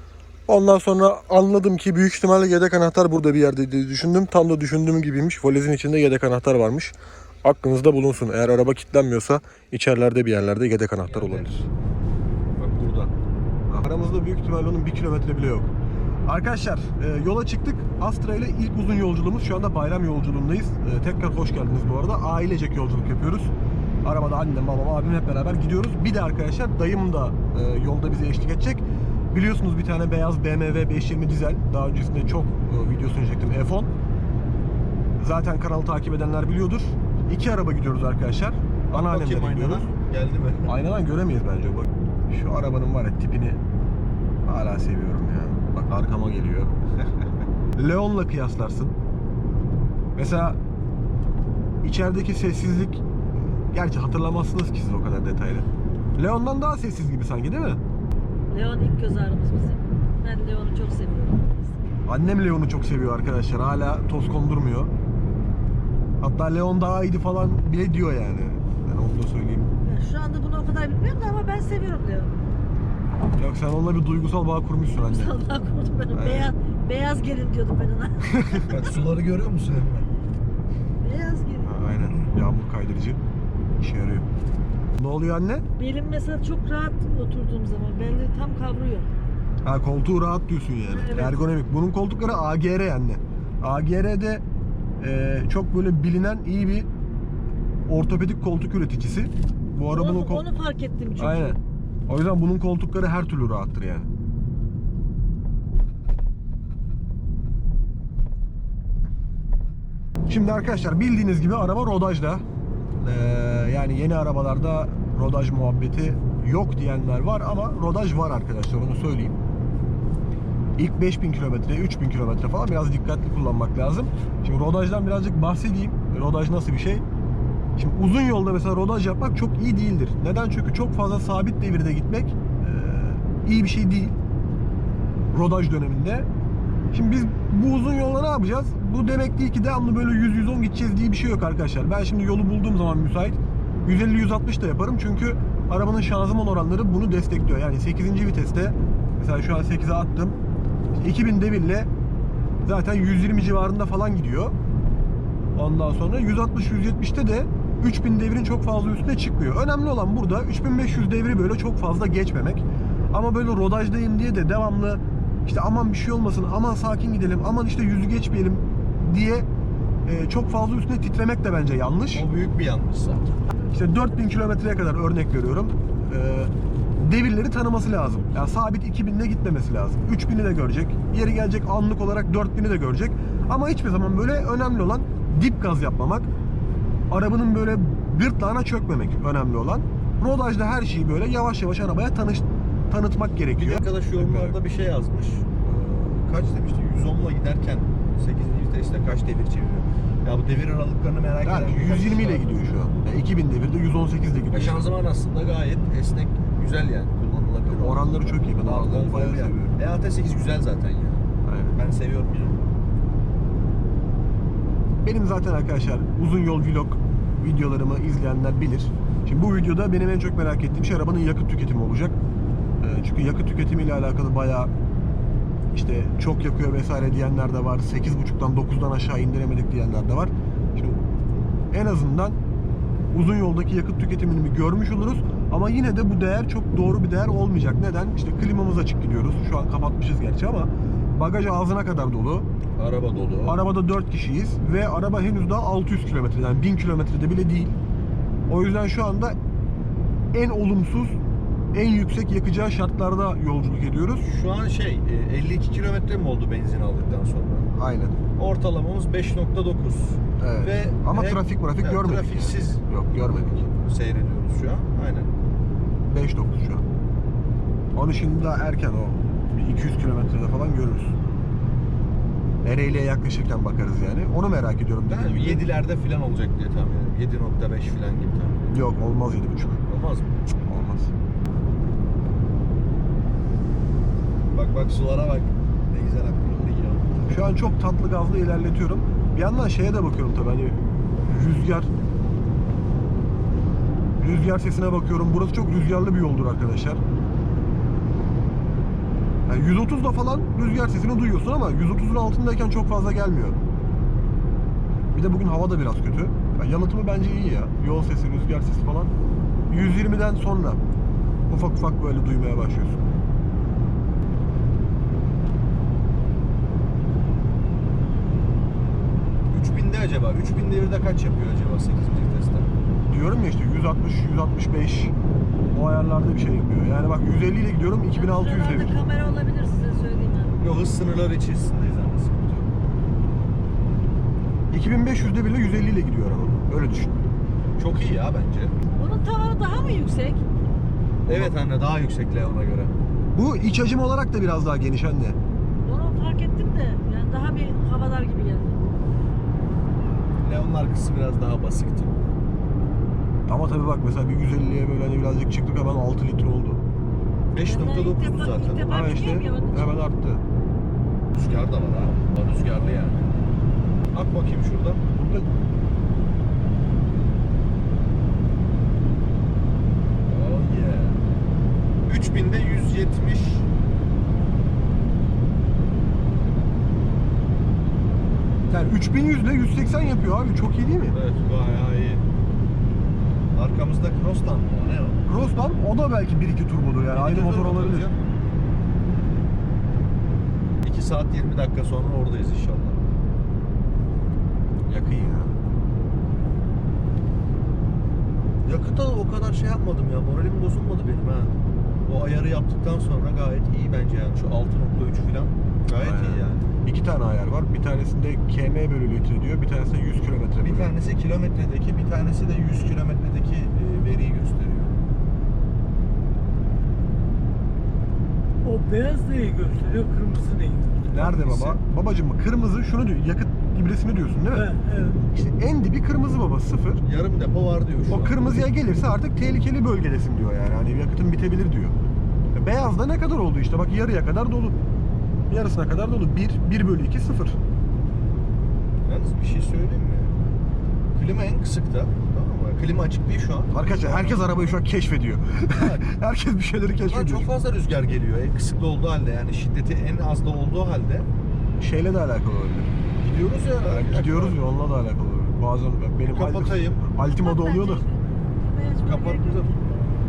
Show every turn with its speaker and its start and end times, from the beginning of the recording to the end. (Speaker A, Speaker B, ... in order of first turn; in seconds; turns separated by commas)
Speaker A: 0.5-11.6, Speaker B: 11.1-11.5, Speaker B: 12.5-13.1, Speaker A: 13.7-15.7, Speaker A: 16.3-23.5, Speaker A: 24.0-33.9, Speaker A: 35.2-39.9, Speaker B: 38.9-40.7, Speaker A: 40.7-43.6, Speaker A: 44.5-46.8, Speaker A: 47.8-49.0, Speaker A: 50.1-50.6, Speaker A: 51.8-53.0, Speaker A: 53.6-57.8, Speaker C: 58.5-61.8, Speaker A: 62.1-64.9, Speaker A: 66.2-69.7, Speaker C: 69.8-72.4, Speaker A: 73.3-75.3, Speaker C: 75.0-79.0, Speaker A: 76.1-76.5, Speaker B: 78.7-80.0, Speaker C: 81.0-81.7, Speaker A: 81.6-83.2, Speaker A: 83.8-84.2, Speaker A: 85.0-85.6, Speaker C: 85.8-89.1, Speaker A: 89.6-94.4, Speaker C: 90.9-91.4, Speaker A: 95.0-96.9, Speaker A: 97.9-100.4, Speaker C: 99.9-101.6, Speaker A: 101.2-104.1, Speaker A: 110.3-112.4, Speaker A: 113.0-119.4, Speaker A: 120.8-127.0, Speaker A: 127.8-134.1, Speaker A: 135.3-136.3, Speaker A: 136.9-150.4, Speaker A: 151.0-151.9, Speaker A: 152.6-154.5, Speaker A: 155.5-169.5, Speaker A: 170.1-172.3, Speaker B: 172.1-173.3, Speaker A: 173.6-186.3, Speaker A: 187.1-194.6, Speaker B: 193.6-202.5, Speaker A: 201.4-205.0, Speaker B: 204.5-211.2, Speaker A: 207.6-209.7, Speaker A: 211.4-211.8, Speaker B: 211.7-212.6, Speaker A: 215.0-222.2, Speaker A: 222.8-224.7, Speaker A: 225.7-231.1, Speaker A: 231.7-232.4, Speaker A: 233.1-242.5, Speaker B: 242.8-243.5, Speaker A: 243.4-247.8, Speaker A: 248.5-249.4, Speaker A: 250.3-251.2, Speaker A: 251.7-254.2, Speaker B: 254.2-257.7, Speaker A: 257.7-258.2, Speaker B: 258.3-265.3, Speaker A: 260.4-263.7, Speaker A: 266.1-266.8, Speaker A: 267.9-271.1, Speaker A: 272.6-275.6, Speaker B: 275.1-278.7, Speaker A: 278.7-279.9, Speaker B: 279.9-280.3, Speaker A: 280.6-281.1, Speaker B: 284.5-287.3, Speaker A: 287.3-291.9, Speaker A: 294.2-297.0, Speaker A: 299.5-303.6, Speaker A: 305.1-309.1, Speaker A: 309.7-310.8, Speaker A: 311.5-313.0, Speaker B: 319.5-322.7, Speaker A: 323.1-325.1, Speaker A: 325.7-329.0, Speaker C: 328.1-330.6, Speaker B: 330.6-332.7, Speaker A: 334.7-337.1, Speaker B: 337.8-338.8, Speaker C: 338.9-340.4, Speaker A: 341.3-341.6, Speaker B: 341.3-342.9, Speaker A: 343.3-345.4, Speaker C: 345.8-348.8, Speaker B: 350.4-352.2, Speaker A: 353.5-356.8, Speaker B: 357.5-359.0, Speaker C: 357.6-360.0, Speaker A: 358.8-360.4, Speaker B: 361.3-363.3, Speaker B: 364.1-365.1, Speaker A: 365.1-365.5, Speaker B: 370.2-371.2, Speaker B: 372.1-373.6, Speaker A: 378.7-381.2, Speaker B: 381.1-382.2, Speaker B: 383.5-385.2, Speaker A: 385.3-388.1, Speaker B: 387.1-388.1, Speaker B: 390.8-393.0, Speaker A: 394.9-395.6, Speaker B: 398.6-406.7, Speaker A: 405.9-411.0, Speaker B: 410.6-415.0, Speaker D: 418.6-421.1, Speaker A: 421.1-424.7, Speaker B: 421.3-421.8, Speaker D: 424.6-425.2, Speaker A: 425.3-427.0, Speaker B: 427.0-428.4, Speaker A: 428.1-431.9, Speaker A: 432.5-434.8, Speaker A: 435.5-437.6, Speaker B: 439.0-440.4, Speaker B: 441.1-444.7, Speaker A: 443.7-447.5, Speaker B: 447.1-451.3, Speaker A: 451.8-452.9, Speaker B: 453.2-454.6, Speaker A: 453.9-458.0, Speaker B: 456.3-457.1, Speaker C: 457.2-459.8, Speaker B: 459.0-459.8